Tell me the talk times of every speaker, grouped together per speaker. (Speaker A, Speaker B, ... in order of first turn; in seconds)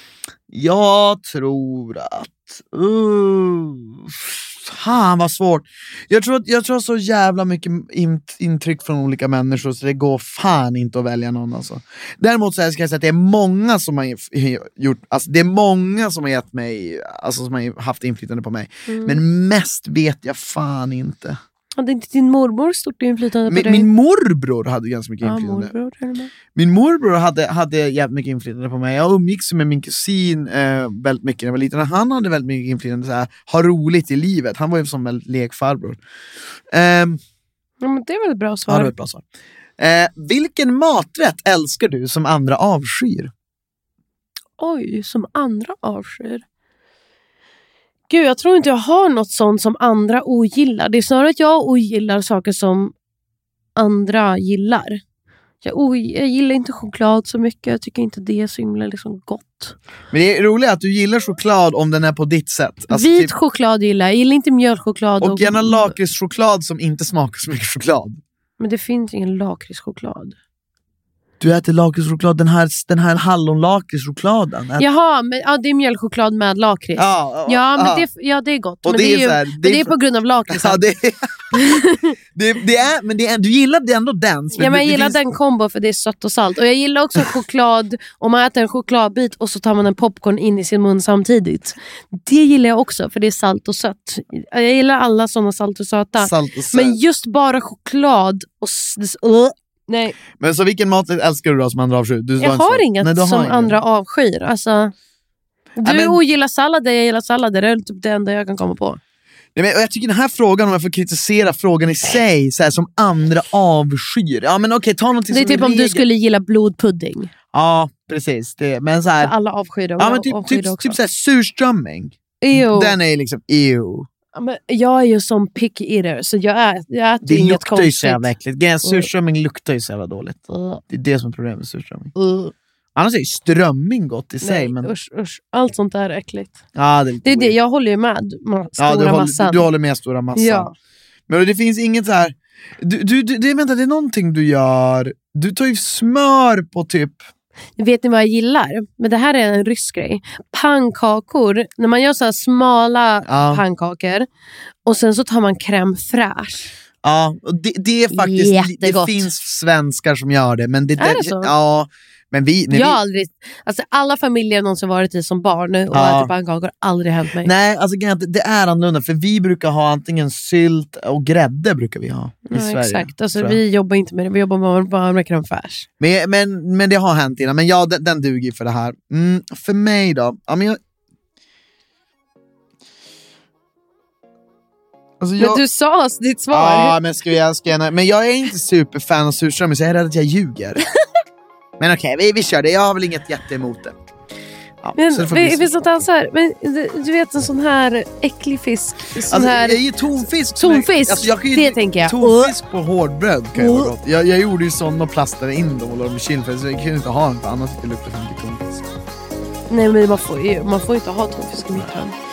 Speaker A: 0.5-21.4, 23.5-25.7, 26.5-36.0, 36.7-37.2, 38.7-39.2, 39.8-43.3, 60.1-63.3, 65.2-68.2, 71.4-74.8, 77.0-78.1, 78.8-79.9, 80.5-81.6, 82.3-85.2, 96.2-97.0, 100.4-103.8, 105.8-106.2, 109.5-116.0, 117.5-119.3, 120.0-124.1, 127.2-132.1, 132.9-134.9, 136.7-137.5, 138.8-140.7, 141.3-147.3, 153.2-153.6, 157.0-163.0, 165.9-166.3, 167.4-173.6, 176.0-180.8, 185.2-185.6, 186.5-190.8, 191.8-194.0, 194.8-195.7, 199.3-208.8
Speaker B: 18.9-19.2, 21.8-23.9, 25.2-26.3, 37.8-38.9, 44.6-46.4, 48.1-52.9, 53.8-55.0, 55.6-59.7, 62.9-65.9, 68.6-70.3, 74.8-80.8, 81.5-82.1, 84.5-100.2, 102.4-104.9, 105.8-109.0, 115.3-117.3, 119.2-121.0, 122.4-123.0, 124.3-128.3, 128.8-129.1, 130.5-130.8, 132.2-132.5, 134.4-136.6, 137.2-139.7, 140.3-140.7, 147.8-154.3, 154.8-156.7, 158.1-159.3, 161.0-161.5, 162.7-167.5, 172.5-175.9, 185.4-187.0, 194.9-199.8, 200.6-202.5, 203.6-203.9, 209.7-212.2